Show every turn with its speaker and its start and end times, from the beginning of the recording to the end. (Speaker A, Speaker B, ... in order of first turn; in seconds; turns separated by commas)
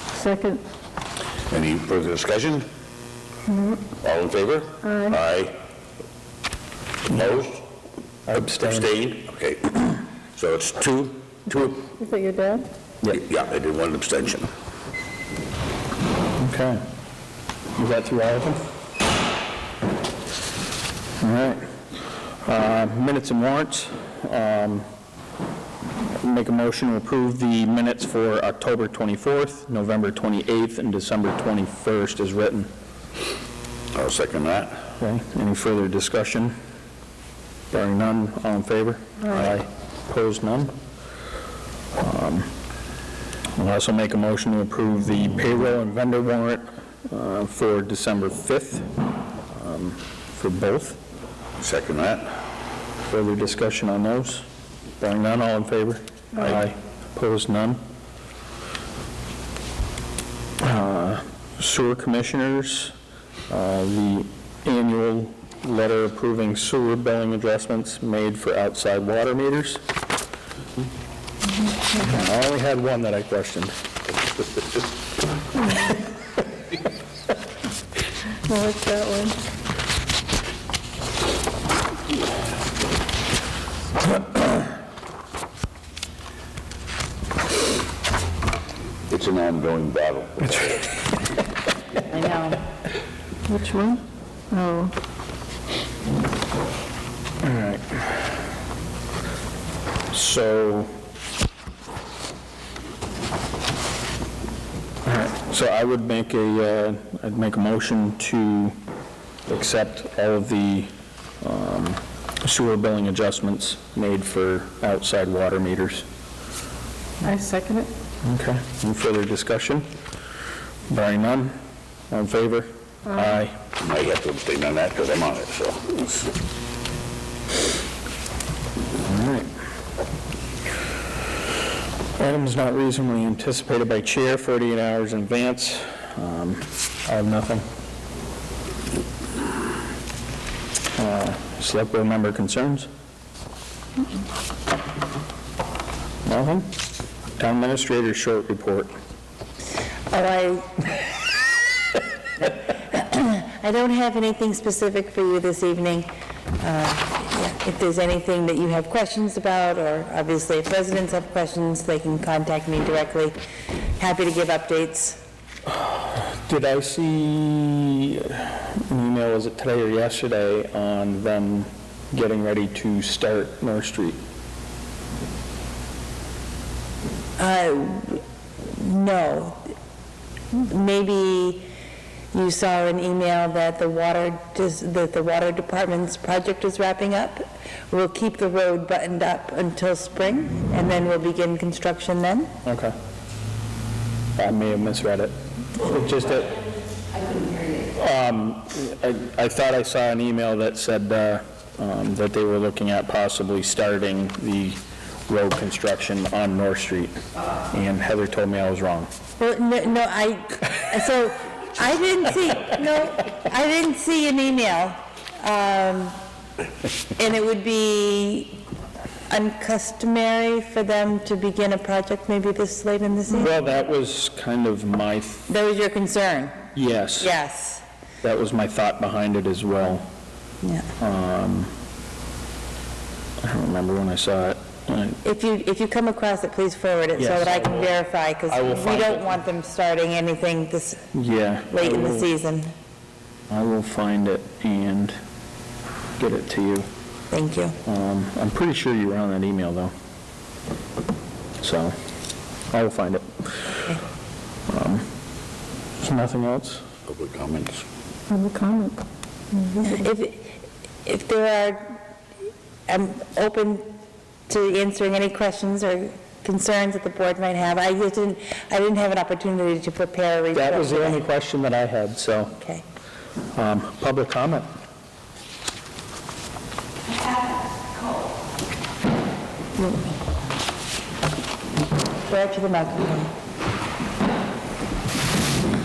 Speaker A: 0.1-0.6, Speaker B: 1.5-2.7, Speaker A: 3.5-3.8, Speaker B: 4.0-5.6, Speaker A: 4.8-5.2, Speaker B: 7.1-7.6, Speaker C: 8.3-8.9, Speaker B: 8.6-11.9, Speaker A: 12.0-12.7, Speaker B: 13.1-14.5, Speaker C: 16.4-16.8, Speaker C: 17.8-18.6, Speaker C: 21.2-21.7, Speaker C: 22.4-24.9, Speaker C: 26.1-32.7, Speaker B: 33.9-34.9, Speaker C: 35.0-36.5, Speaker C: 37.7-40.8, Speaker C: 42.0-42.5, Speaker C: 43.6-48.9, Speaker C: 49.5-51.0, Speaker B: 51.6-52.2, Speaker C: 53.0-54.5, Speaker C: 55.0-57.8, Speaker C: 60.6-63.0, Speaker C: 63.5-69.8, Speaker C: 72.0-73.7, Speaker A: 78.5-79.4, Speaker B: 89.1-91.1, Speaker D: 92.1-92.6, Speaker A: 93.5-94.9, Speaker C: 97.4-98.1, Speaker C: 100.1-100.9, Speaker C: 105.0-108.8, Speaker C: 109.5-116.0, Speaker A: 117.2-117.9, Speaker C: 118.2-119.9, Speaker C: 120.9-121.6, Speaker C: 122.1-123.6, Speaker B: 123.8-126.3, Speaker C: 129.0-129.5, Speaker C: 132.2-137.7, Speaker C: 141.0-142.9, Speaker C: 146.2-146.7, Speaker C: 147.4-148.9, Speaker D: 150.1-151.0, Speaker D: 152.4-163.4, Speaker D: 164.0-165.2, Speaker C: 165.7-174.2, Speaker D: 177.4-179.7, Speaker D: 180.6-181.7, Speaker D: 182.3-192.5, Speaker C: 192.7-192.9, Speaker C: 194.4-196.6, Speaker C: 197.9-207.2, Speaker C: 207.7-209.1, Speaker D: 209.4-216.2, Speaker D: 217.2-218.6, Speaker D: 219.3-223.5, Speaker C: 223.3-225.5, Speaker D: 225.5-226.6, Speaker C: 226.7-227.3, Speaker D: 227.2-227.8, Speaker C: 228.2-230.1, Speaker D: 230.6-230.9, Speaker C: 231.0-231.7, Speaker C: 233.4-235.2, Speaker D: 235.2-241.0, Speaker C: 237.2-238.0, Speaker C: 238.5-239.4, Speaker C: 241.1-242.3, Speaker D: 241.7-242.7, Speaker C: 243.5-245.2, Speaker C: 246.2-246.9, Speaker D: 247.3-247.8, Speaker C: 247.8-249.9, Speaker C: 251.6-251.9, Speaker C: 252.7-253.9, Speaker C: 254.7-255.1, Speaker C: 256.0-256.8, Speaker B: 257.1-257.9, Speaker A: 258.3-259.0, Speaker D: 259.7-262.0, Speaker D: 262.9-263.9, Speaker D: 264.5-271.2, Speaker C: 270.5-272.6, Speaker D: 272.6-272.8, Speaker C: 273.6-274.7, Speaker D: 282.3-283.3